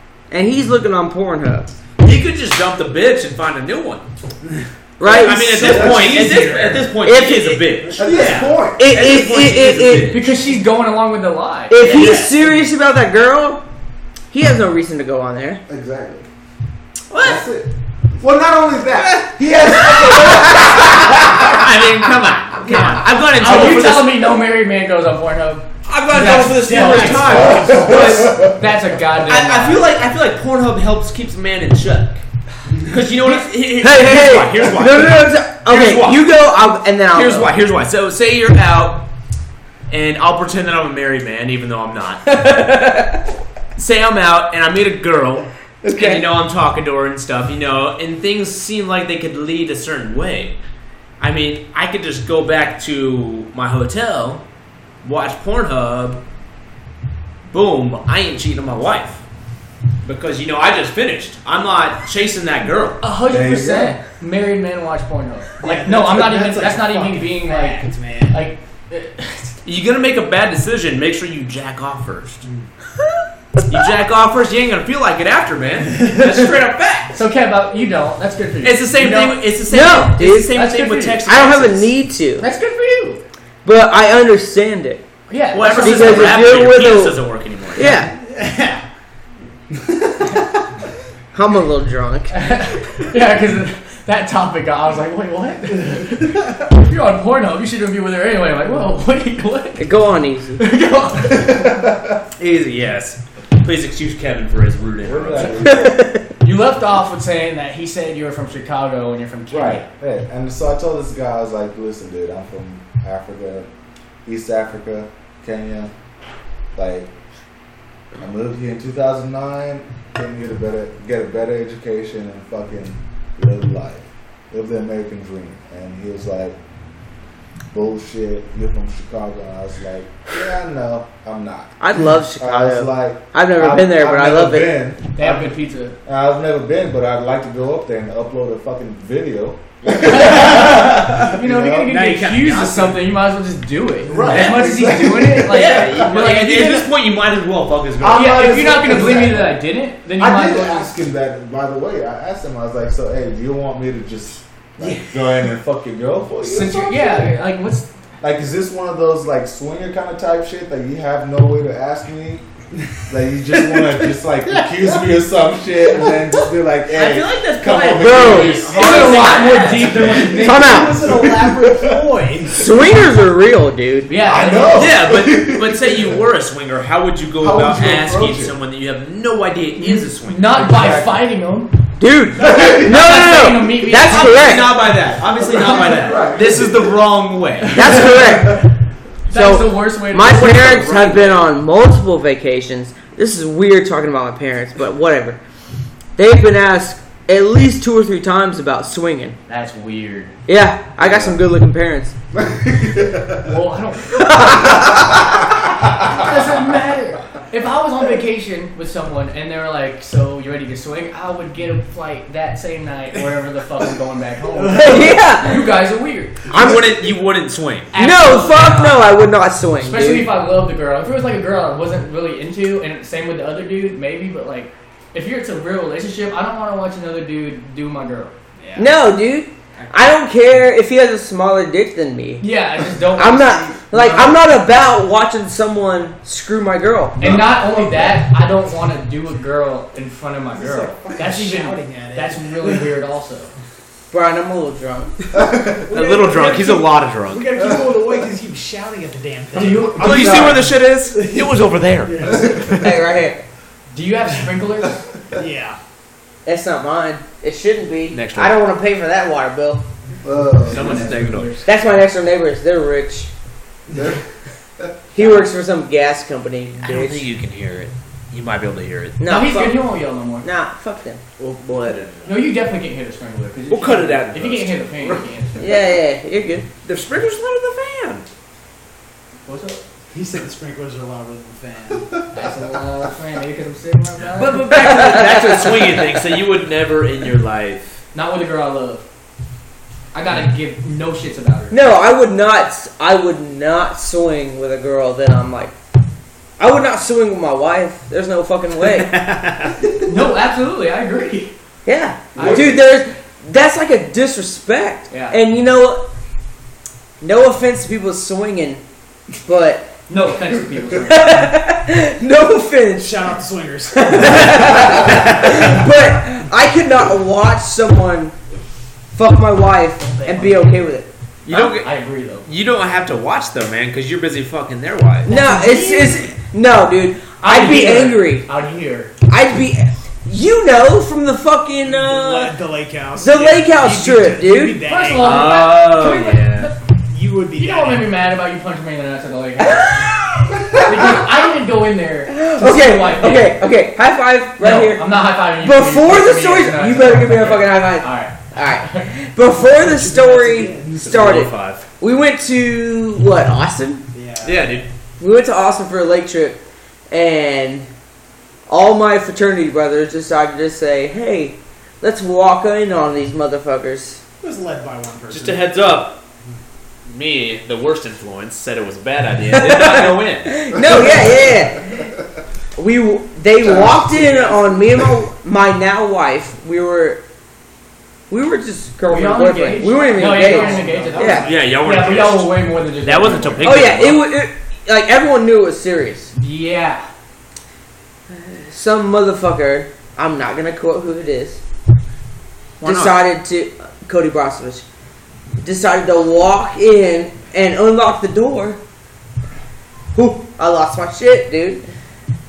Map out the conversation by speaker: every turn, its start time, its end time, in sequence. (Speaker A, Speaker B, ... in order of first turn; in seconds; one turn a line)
Speaker A: 0.3-1.7
Speaker B: 2.0-4.1
Speaker A: 5.0-5.8
Speaker B: 5.0-10.3
Speaker C: 5.2-6.9
Speaker D: 5.6-6.3
Speaker A: 7.0-7.7
Speaker D: 8.0-8.9
Speaker C: 8.0-8.4
Speaker A: 8.8-10.2
Speaker E: 10.1-12.0
Speaker A: 11.7-13.6
Speaker B: 11.8-12.3
Speaker A: 14.3-15.6
Speaker D: 15.7-16.3
Speaker B: 17.1-17.4
Speaker D: 17.2-21.5
Speaker B: 19.1-24.3
Speaker E: 22.9-29.9
Speaker B: 25.9-28.4
Speaker C: 26.4-27.8
Speaker D: 27.4-28.6
Speaker B: 29.2-32.2
Speaker B: 32.8-36.3
Speaker A: 33.8-37.5
Speaker B: 37.1-39.1
Speaker B: 39.9-42.4
Speaker A: 42.3-43.2
Speaker B: 43.8-50.6
Speaker A: 45.8-46.2
Speaker B: 51.2-54.4
Speaker B: 55.0-56.2
Speaker B: 57.5-59.2
Speaker B: 60.0-63.0
Speaker E: 63.0-69.6
Speaker D: 63.3-64.0
Speaker C: 65.6-68.4
Speaker B: 69.6-72.5
Speaker B: 73.7-77.2
Speaker E: 77.1-79.4
Speaker B: 78.6-81.9
Speaker A: 79.7-80.6
Speaker E: 80.5-81.2
Speaker A: 81.2-82.5
Speaker E: 82.4-83.2
Speaker A: 83.6-85.0
Speaker E: 85.3-86.5
Speaker B: 85.5-88.1
Speaker A: 85.7-87.2
Speaker A: 87.7-88.1
Speaker C: 88.1-88.8
Speaker A: 91.3-92.3
Speaker E: 92.3-99.9
Speaker A: 99.8-100.6
Speaker E: 100.6-101.9
Speaker D: 101.3-102.2
Speaker B: 102.4-105.8
Speaker D: 105.0-106.0
Speaker A: 105.7-106.2
Speaker E: 106.4-109.8
Speaker D: 109.5-113.7
Speaker D: 114.2-115.9
Speaker D: 116.8-117.1
Speaker D: 118.2-126.6
Speaker D: 127.7-131.7
Speaker A: 131.8-134.8
Speaker D: 132.4-142.0
Speaker E: 135.1-135.9
Speaker E: 139.9-146.9
Speaker C: 140.5-140.9
Speaker C: 141.8-143.0
Speaker D: 144.1-145.9
Speaker B: 144.3-144.8
Speaker B: 145.3-148.6
Speaker D: 148.0-149.6
Speaker E: 148.1-150.9
Speaker D: 150.2-157.3
Speaker C: 154.8-155.2
Speaker E: 156.4-157.9
Speaker D: 158.2-162.4
Speaker D: 163.1-168.7
Speaker C: 163.7-164.0
Speaker B: 166.9-170.4
Speaker A: 168.0-168.8
Speaker E: 168.4-170.8
Speaker C: 168.7-172.9
Speaker D: 170.1-172.0
Speaker A: 170.4-171.1
Speaker A: 172.5-174.2
Speaker E: 174.1-174.9
Speaker D: 174.2-176.2
Speaker B: 174.7-180.7
Speaker D: 177.4-178.5
Speaker E: 179.8-181.7
Speaker D: 180.5-181.2
Speaker A: 182.0-184.8
Speaker D: 182.4-183.4
Speaker E: 182.7-184.7
Speaker B: 184.0-188.1
Speaker D: 185.2-187.0
Speaker A: 187.7-188.7
Speaker D: 188.2-188.7
Speaker E: 189.3-191.5
Speaker A: 189.3-195.4
Speaker A: 196.2-199.4
Speaker E: 199.5-200.3
Speaker A: 200.5-202.1
Speaker D: 201.0-201.4
Speaker D: 202.3-203.5
Speaker E: 203.4-204.7
Speaker A: 204.2-205.2
Speaker D: 204.6-205.2
Speaker E: 205.9-216.5
Speaker D: 206.0-206.3
Speaker C: 214.5-215.2
Speaker A: 214.7-215.8
Speaker B: 216.5-217.9
Speaker A: 216.5-217.1
Speaker E: 217.9-219.1
Speaker A: 217.9-220.3
Speaker E: 219.8-228.3
Speaker C: 228.6-228.9
Speaker A: 228.8-232.5
Speaker E: 232.4-234.4
Speaker A: 233.1-237.2
Speaker E: 237.2-243.5
Speaker D: 237.2-237.5
Speaker D: 240.6-241.2
Speaker C: 241.1-242.9
Speaker A: 244.1-245.2
Speaker D: 245.3-245.8
Speaker C: 245.7-250.4
Speaker B: 245.9-247.6
Speaker E: 249.5-250.6
Speaker B: 249.9-252.9
Speaker D: 250.0-250.6
Speaker C: 251.1-251.4
Speaker C: 252.0-252.6
Speaker D: 252.3-252.8
Speaker A: 252.7-253.4
Speaker E: 253.9-255.0
Speaker C: 255.3-255.8
Speaker A: 256.4-259.8
Speaker B: 258.1-258.6
Speaker D: 260.2-261.3
Speaker B: 260.7-261.6
Speaker E: 260.7-261.6
Speaker A: 261.6-263.3
Speaker D: 263.9-264.2
Speaker A: 265.1-267.2
Speaker B: 266.8-269.2
Speaker A: 269.2-271.2
Speaker E: 269.2-270.4
Speaker B: 271.4-272.3
Speaker E: 272.2-275.9
Speaker B: 273.7-275.2
Speaker A: 275.6-276.7
Speaker B: 276.8-278.3
Speaker E: 279.4-279.8
Speaker C: 280.1-282.1
Speaker E: 282.3-285.2
Speaker B: 284.3-288.0
Speaker A: 284.6-286.2
Speaker E: 288.1-289.0
Speaker E: 290.1-291.7
Speaker A: 291.7-295.7
Speaker A: 296.6-299.2
Speaker B: 298.9-299.8
Speaker E: 300.0-301.5
Speaker A: 301.8-306.1
Speaker D: 302.4-302.8
Speaker E: 302.4-302.7
Speaker E: 305.1-305.4
Speaker A: 307.2-308.8
Speaker A: 309.4-310.0
Speaker E: 310.1-311.6
Speaker A: 311.0-313.1
Speaker C: 313.0-315.5
Speaker A: 314.0-318.3
Speaker A: 319.1-321.1
Speaker C: 320.2-320.7
Speaker B: 321.4-321.9
Speaker E: 321.5-322.5
Speaker B: 322.4-325.3
Speaker E: 325.2-326.2
Speaker A: 325.2-328.5
Speaker E: 327.4-329.1
Speaker A: 329.3-332.5
Speaker C: 331.8-335.6
Speaker A: 333.2-334.8
Speaker E: 334.8-336.7
Speaker B: 335.2-336.7
Speaker C: 337.1-338.1
Speaker E: 337.6-340.1
Speaker A: 339.6-341.0
Speaker E: 340.7-343.6
Speaker A: 342.3-354.0
Speaker E: 344.6-349.1
Speaker C: 349.6-351.3
Speaker B: 351.0-351.9
Speaker C: 354.1-354.6
Speaker B: 354.4-354.9
Speaker A: 355.2-357.9
Speaker A: 358.7-364.2
Speaker C: 364.4-365.7
Speaker B: 365.3-366.2
Speaker B: 367.1-370.8
Speaker A: 369.5-372.1
Speaker D: 370.8-372.0
Speaker A: 372.8-377.2
Speaker D: 373.6-375.2
Speaker A: 378.3-381.5
Speaker E: 379.1-383.9
Speaker C: 380.2-381.6
Speaker B: 381.4-384.3
Speaker A: 383.6-386.3
Speaker E: 386.3-387.1
Speaker A: 388.3-391.6
Speaker B: 392.8-393.2
Speaker A: 392.8-394.8
Speaker A: 395.6-398.8
Speaker A: 400.1-401.8